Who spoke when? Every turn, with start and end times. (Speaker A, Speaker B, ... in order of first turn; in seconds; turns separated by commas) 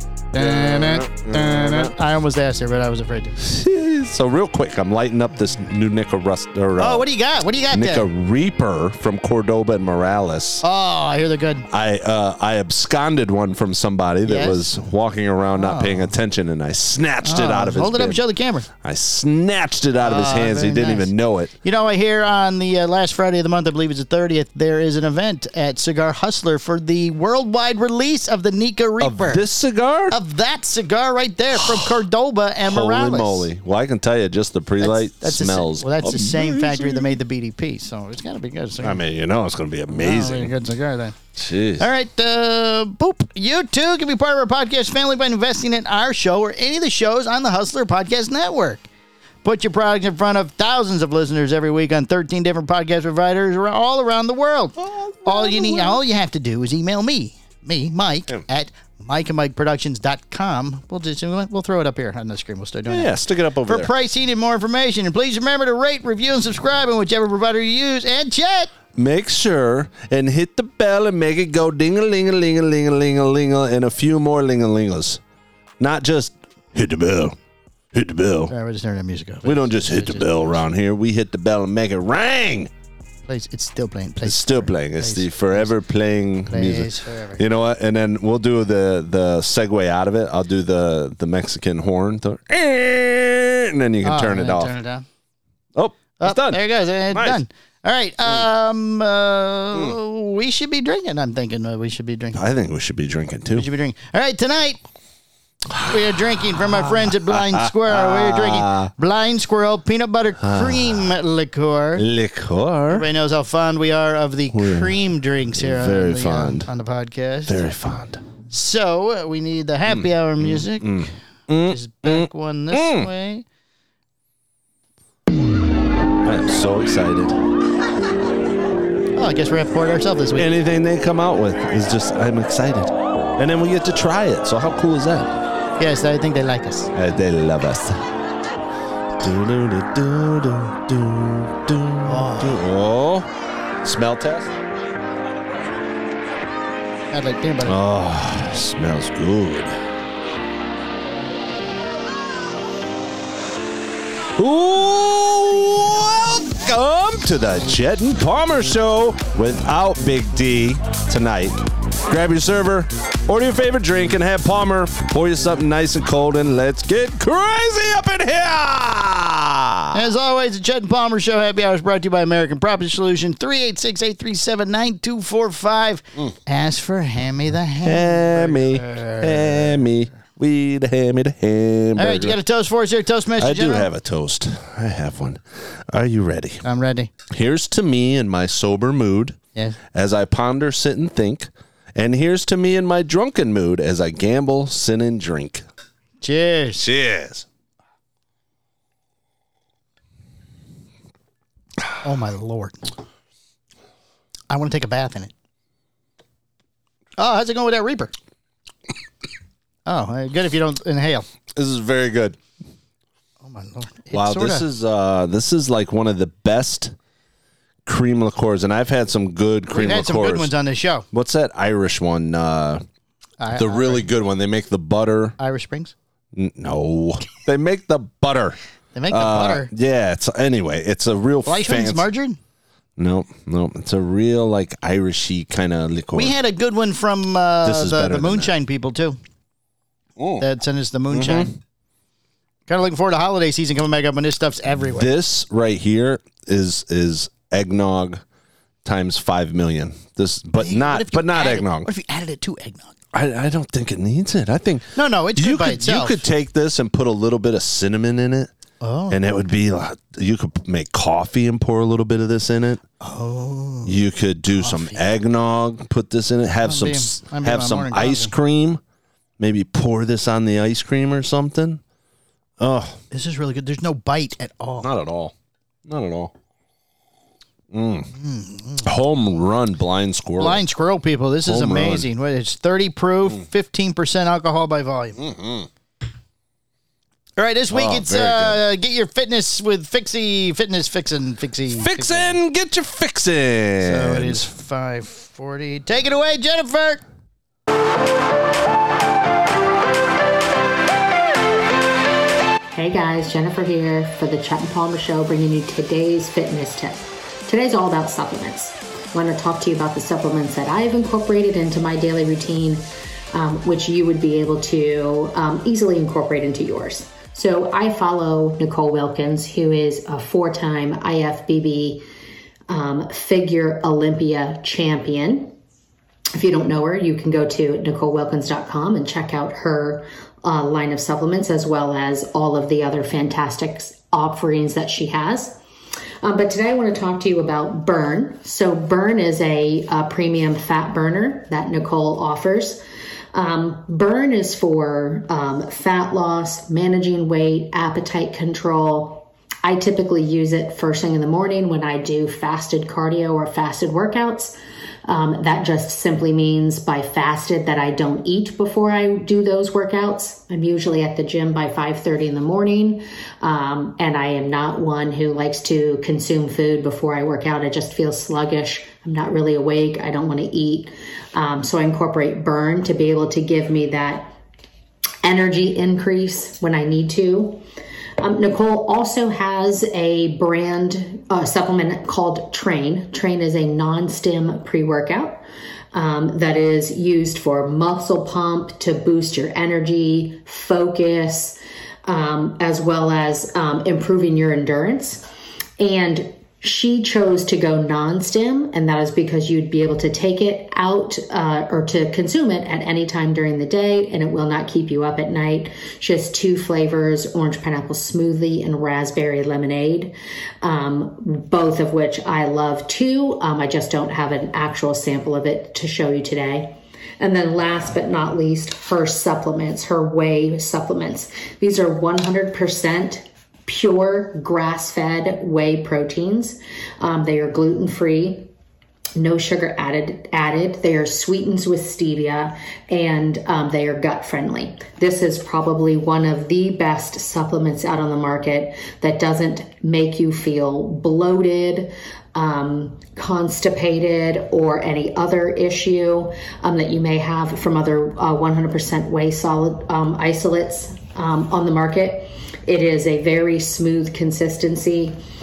Speaker A: 0.3-3.4, Speaker B: 0.3-1.9, Speaker B: 3.4-7.0, Speaker A: 6.8-8.1, Speaker B: 7.7-10.6, Speaker A: 10.6-11.7, Speaker B: 11.7-18.2, Speaker A: 14.2-14.6, Speaker A: 15.5-16.1, Speaker A: 17.2-18.7, Speaker B: 18.8-21.5, Speaker A: 20.0-21.1, Speaker A: 21.6-29.4, Speaker B: 29.0-30.2, Speaker A: 30.1-33.5, Speaker B: 31.5-31.9, Speaker B: 32.6-37.1, Speaker A: 34.8-39.0, Speaker B: 38.8-40.5, Speaker A: 39.9-41.1, Speaker B: 41.3-41.9, Speaker A: 41.8-48.9, Speaker A: 49.4-63.1, Speaker B: 54.8-56.0, Speaker B: 62.9-63.9, Speaker A: 63.7-68.7, Speaker B: 68.9-75.2, Speaker B: 75.8-77.3, Speaker B: 77.9-78.5, Speaker A: 78.5-80.6, Speaker B: 79.4-82.7, Speaker A: 83.3-85.7, Speaker B: 84.2-94.7, Speaker A: 86.5-87.4, Speaker A: 94.0-95.0, Speaker B: 95.7-97.4, Speaker A: 96.2-102.4, Speaker B: 102.3-103.7, Speaker A: 103.5-104.8, Speaker B: 105.7-108.9, Speaker A: 105.8-112.0, Speaker B: 110.4-111.2, Speaker B: 112.0-113.1, Speaker A: 112.9-117.6, Speaker B: 114.5-115.0, Speaker B: 115.5-116.7, Speaker B: 117.5-118.2, Speaker A: 118.5-123.4, Speaker B: 119.9-123.1, Speaker B: 126.2-127.4, Speaker A: 129.2-130.5, Speaker B: 130.3-135.4, Speaker A: 135.8-136.9, Speaker B: 136.9-138.0, Speaker B: 139.2-143.3, Speaker A: 142.0-142.7, Speaker B: 143.8-144.5, Speaker A: 147.1-147.8, Speaker B: 147.6-149.8, Speaker B: 154.3-170.0, Speaker A: 169.9-179.8, Speaker B: 177.8-182.4, Speaker A: 181.9-183.9, Speaker B: 183.4-186.6, Speaker A: 186.6-187.1, Speaker B: 187.3-189.4, Speaker B: 189.9-195.7, Speaker A: 196.2-196.8, Speaker B: 196.8-197.4, Speaker A: 202.0-202.8, Speaker A: 204.5-205.3, Speaker A: 207.2-208.1, Speaker A: 209.8-211.3, Speaker B: 211.5-212.4, Speaker A: 213.4-214.6, Speaker B: 214.1-216.9, Speaker B: 217.8-220.5, Speaker A: 219.7-221.1, Speaker B: 221.1-222.8, Speaker A: 223.4-224.1, Speaker B: 223.5-225.3, Speaker A: 225.4-225.9, Speaker B: 226.3-228.6, Speaker A: 228.9-229.7, Speaker B: 229.1-232.1, Speaker A: 231.4-232.4, Speaker B: 233.0-236.3, Speaker A: 236.1-239.2, Speaker B: 237.6-238.5, Speaker B: 240.2-240.4, Speaker A: 240.4-241.5, Speaker B: 241.1-241.6, Speaker A: 242.7-245.1, Speaker B: 244.9-248.2, Speaker B: 248.8-251.9, Speaker A: 250.6-252.9, Speaker B: 253.1-258.5, Speaker A: 254.9-256.2, Speaker A: 258.8-259.2, Speaker B: 259.1-262.8, Speaker A: 263.0-264.0, Speaker B: 263.8-268.8, Speaker A: 264.5-265.0, Speaker A: 266.6-268.3, Speaker B: 269.4-271.8, Speaker B: 272.6-273.0, Speaker A: 273.1-274.9, Speaker B: 274.8-275.3, Speaker B: 275.9-276.3, Speaker B: 277.7-278.1, Speaker A: 278.1-278.9, Speaker B: 278.8-280.6, Speaker A: 280.4-285.2, Speaker B: 281.4-282.1, Speaker B: 285.2-285.7, Speaker A: 287.4-292.4, Speaker B: 287.7-288.6, Speaker B: 291.7-294.5, Speaker A: 293.8-297.0, Speaker C: 302.7-322.0, Speaker C: 322.7-325.5, Speaker C: 326.3-335.6, Speaker C: 336.2-342.8, Speaker C: 343.3-374.3, Speaker C: 375.2-377.6, Speaker C: 378.2-395.2, Speaker C: 395.8-428.5, Speaker C: 429.2-455.2